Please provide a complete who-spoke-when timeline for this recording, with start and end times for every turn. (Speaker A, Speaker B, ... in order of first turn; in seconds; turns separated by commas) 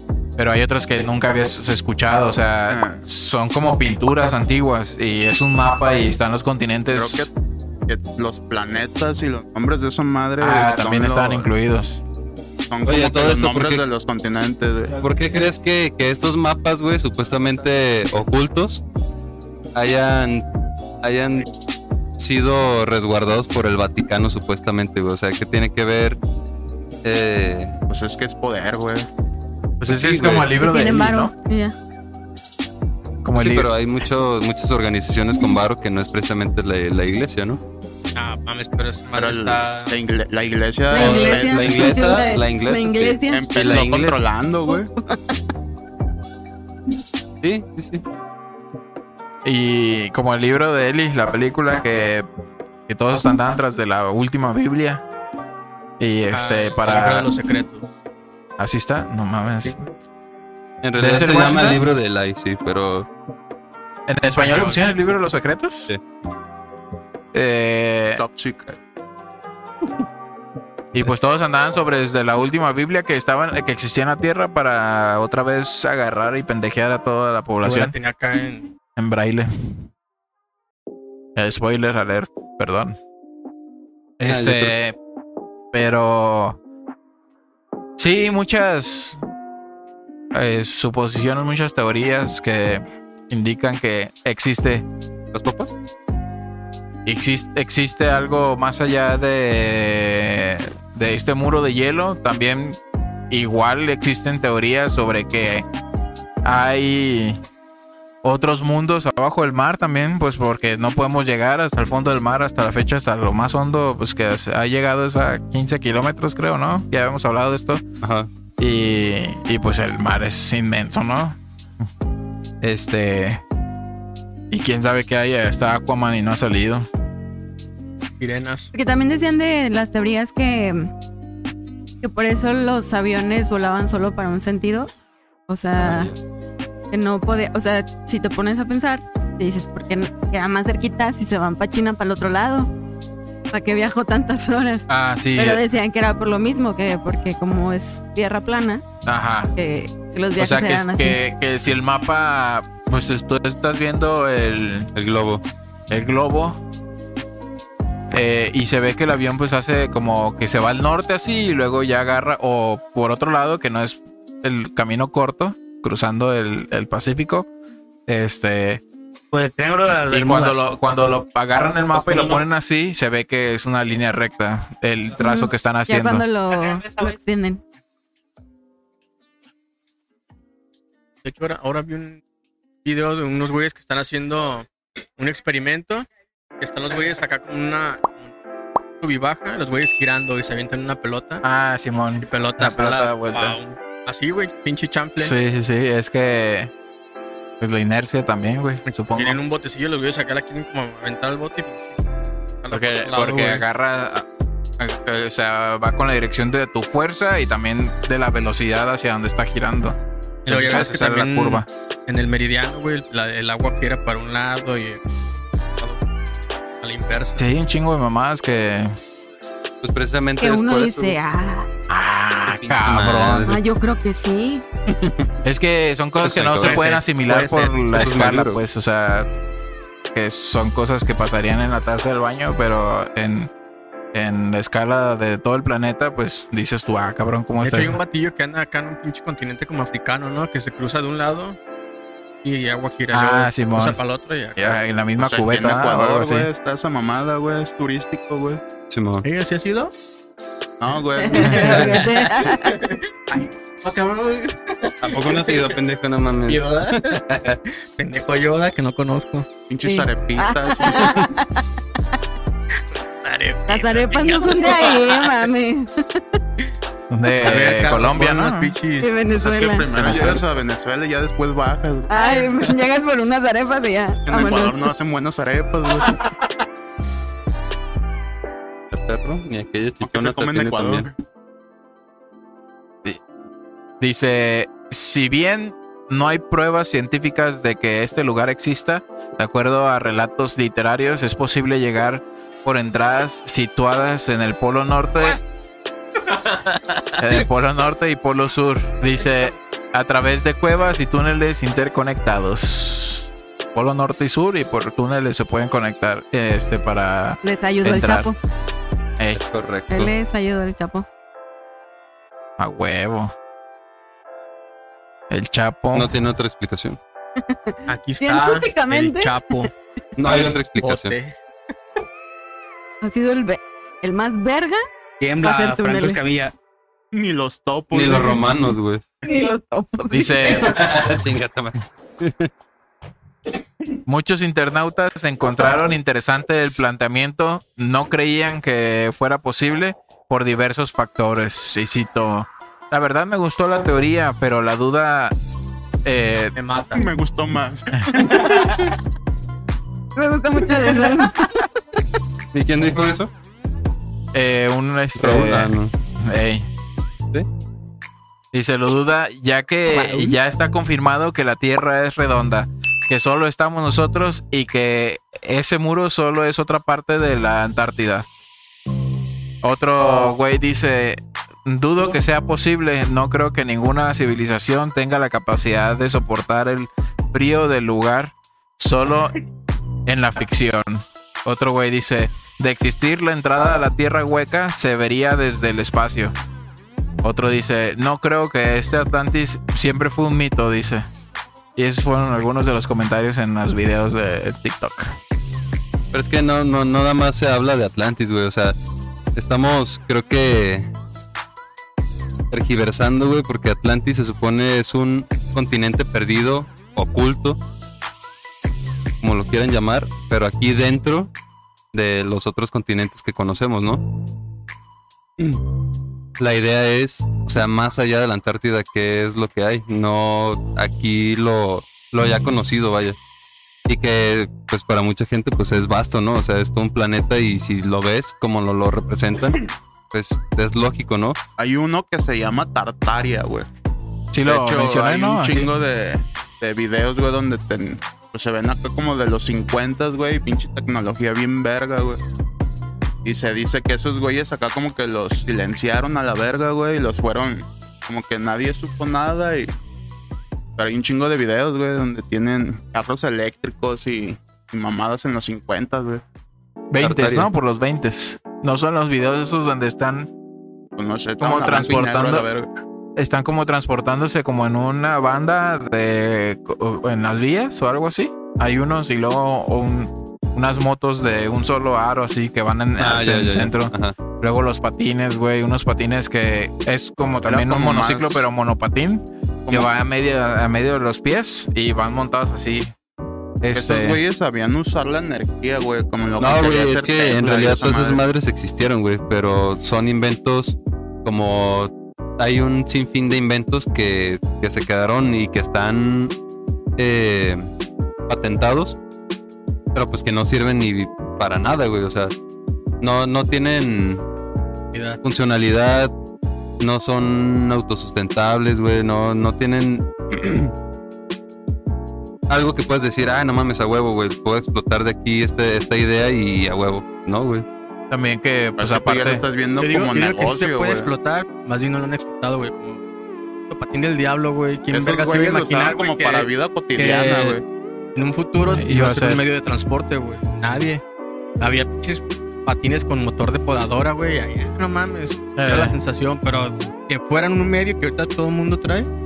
Speaker A: 0.4-7.3, Speaker B: 2.7-3.0, Speaker B: 6.9-7.3, Speaker B: 7.9-11.5, Speaker A: 10.4-12.0, Speaker B: 12.7-15.0, Speaker C: 12.8-13.8, Speaker C: 15.0-18.8, Speaker C: 19.8-20.4, Speaker C: 21.0-21.5, Speaker C: 22.2-26.2, Speaker C: 27.0-27.8, Speaker B: 27.9-29.1, Speaker A: 29.8-31.3, Speaker C: 29.9-30.5, Speaker D: 30.6-31.7, Speaker A: 33.2-33.7, Speaker C: 33.4-37.6, Speaker E: 38.1-40.0, Speaker B: 39.1-42.0, Speaker D: 40.9-43.5, Speaker C: 40.9-44.2, Speaker B: 43.3-44.9, Speaker D: 44.7-45.3, Speaker C: 47.4-48.0, Speaker A: 49.5-52.3, Speaker A: 52.9-55.0, Speaker A: 56.0-57.3, Speaker E: 56.3-57.9, Speaker A: 58.6-59.8, Speaker E: 59.6-59.9, Speaker C: 60.8-63.1, Speaker A: 61.0-61.8, Speaker A: 64.1-65.9, Speaker E: 64.4-64.9, Speaker A: 67.3-68.2, Speaker B: 68.2-68.8, Speaker A: 70.9-77.9, Speaker E: 77.6-78.7, Speaker A: 79.0-79.9, Speaker A: 81.4-83.0, Speaker A: 84.2-85.0, Speaker C: 84.2-84.7, Speaker A: 85.7-86.6, Speaker A: 88.0-89.2, Speaker A: 90.3-94.9, Speaker C: 95.3-95.8, Speaker A: 97.1-102.8, Speaker A: 103.3-105.7, Speaker A: 106.4-107.4, Speaker A: 108.2-117.8, Speaker C: 118.0-118.3, Speaker A: 118.6-121.4, Speaker A: 122.6-123.4, Speaker A: 124.5-126.9, Speaker E: 128.2-128.7, Speaker D: 128.7-130.9, Speaker D: 132.0-134.9, Speaker D: 135.5-136.1, Speaker C: 135.8-136.1, Speaker D: 136.9-142.7, Speaker D: 143.5-148.8, Speaker A: 144.9-145.6, Speaker A: 149.1-149.5, Speaker D: 149.6-151.2, Speaker A: 150.4-154.9, Speaker C: 154.9-155.4, Speaker A: 155.9-156.6, Speaker A: 158.1-167.5, Speaker A: 168.1-168.8, Speaker F: 169.3-170.7, Speaker A: 170.1-176.2, Speaker D: 175.2-177.6, Speaker E: 181.2-182.2, Speaker E: 182.8-184.7, Speaker E: 185.2-186.1, Speaker E: 186.6-188.3, Speaker E: 189.0-191.4, Speaker A: 191.4-193.6, Speaker E: 192.2-195.3, Speaker A: 195.2-196.7, Speaker A: 197.6-199.4, Speaker E: 199.1-202.0, Speaker E: 202.6-203.6, Speaker A: 202.7-204.3, Speaker A: 204.8-210.0, Speaker E: 210.5-215.0, Speaker A: 210.5-211.7, Speaker E: 215.8-216.0, Speaker E: 216.8-217.5, Speaker A: 217.4-218.9, Speaker C: 219.8-221.2, Speaker D: 220.4-221.7, Speaker A: 221.9-223.6, Speaker C: 222.5-223.6, Speaker D: 223.4-224.7, Speaker C: 225.0-225.3, Speaker A: 225.4-229.3, Speaker C: 226.2-226.8, Speaker E: 226.6-227.8, Speaker C: 227.9-228.6, Speaker A: 230.1-233.5, Speaker A: 234.1-238.0, Speaker E: 237.6-241.6, Speaker E: 242.4-244.8, Speaker A: 243.1-244.0, Speaker A: 244.6-246.5, Speaker B: 245.2-248.6, Speaker C: 248.9-249.3, Speaker E: 249.2-249.9, Speaker B: 250.8-251.9, Speaker D: 251.2-252.8, Speaker E: 251.6-255.8, Speaker C: 255.0-257.6, Speaker E: 256.5-257.2, Speaker E: 258.0-259.5, Speaker B: 259.7-261.3, Speaker D: 259.8-261.6, Speaker E: 263.1-265.5, Speaker D: 263.7-266.2, Speaker A: 267.1-268.7, Speaker E: 267.4-269.1, Speaker D: 269.0-270.2, Speaker B: 269.4-272.1, Speaker D: 272.1-274.9, Speaker E: 272.2-272.8, Speaker B: 274.3-276.2, Speaker C: 278.9-281.1, Speaker B: 280.0-281.1, Speaker A: 284.0-295.4, Speaker E: 296.3-297.0, Speaker A: 297.2-308.3, Speaker D: 307.4-308.4, Speaker C: 309.3-310.1, Speaker D: 309.9-311.1, Speaker A: 312.6-313.3, Speaker A: 315.3-316.1, Speaker C: 315.9-317.0, Speaker D: 317.4-319.6, Speaker E: 317.9-319.7, Speaker C: 320.2-321.1, Speaker E: 320.3-321.4, Speaker D: 323.0-324.8, Speaker F: 325.2-326.5, Speaker D: 325.4-326.3, Speaker B: 327.1-328.4, Speaker C: 327.9-329.0, Speaker D: 329.2-330.8, Speaker A: 330.1-330.8, Speaker C: 330.6-332.5, Speaker A: 334.1-345.4, Speaker A: 346.1-346.6, Speaker E: 346.6-347.1, Speaker B: 346.9-348.9, Speaker D: 350.2-351.7, Speaker C: 352.5-353.3, Speaker A: 354.3-356.7, Speaker C: 355.2-355.9, Speaker A: 358.5-368.3, Speaker D: 359.9-360.4, Speaker A: 369.6-379.4, Speaker A: 380.1-386.3, Speaker A: 387.2-391.1, Speaker A: 391.8-395.2, Speaker C: 396.1-398.8, Speaker C: 399.4-400.9, Speaker C: 402.5-407.6, Speaker C: 409.2-411.3, Speaker C: 411.9-414.0, Speaker C: 416.4-423.2, Speaker C: 423.9-431.4, Speaker B: 431.6-433.7, Speaker A: 434.3-435.7, Speaker B: 434.5-442.2, Speaker B: 443.2-449.7, Speaker B: 450.8-456.2, Speaker A: 456.9-460.3, Speaker C: 457.0-457.5, Speaker B: 461.0-462.7, Speaker A: 461.4-462.5, Speaker A: 463.2-482.9, Speaker C: 473.0-474.2, Speaker B: 477.5-478.4, Speaker A: 483.6-484.2, Speaker B: 483.7-488.2, Speaker C: 486.4-496.3, Speaker C: 497.0-497.7, Speaker C: 498.3-499.0, Speaker C: 499.9-502.3, Speaker C: 503.0-504.2, Speaker E: 504.9-505.2, Speaker C: 505.2-506.1, Speaker C: 506.8-510.7, Speaker C: 512.5-517.7, Speaker A: 518.1-519.4, Speaker B: 518.8-521.1, Speaker E: 519.8-523.0, Speaker E: 523.7-527.6, Speaker B: 524.9-527.6, Speaker E: 528.1-531.0, Speaker A: 528.6-529.4, Speaker E: 531.6-539.1, Speaker A: 535.6-536.0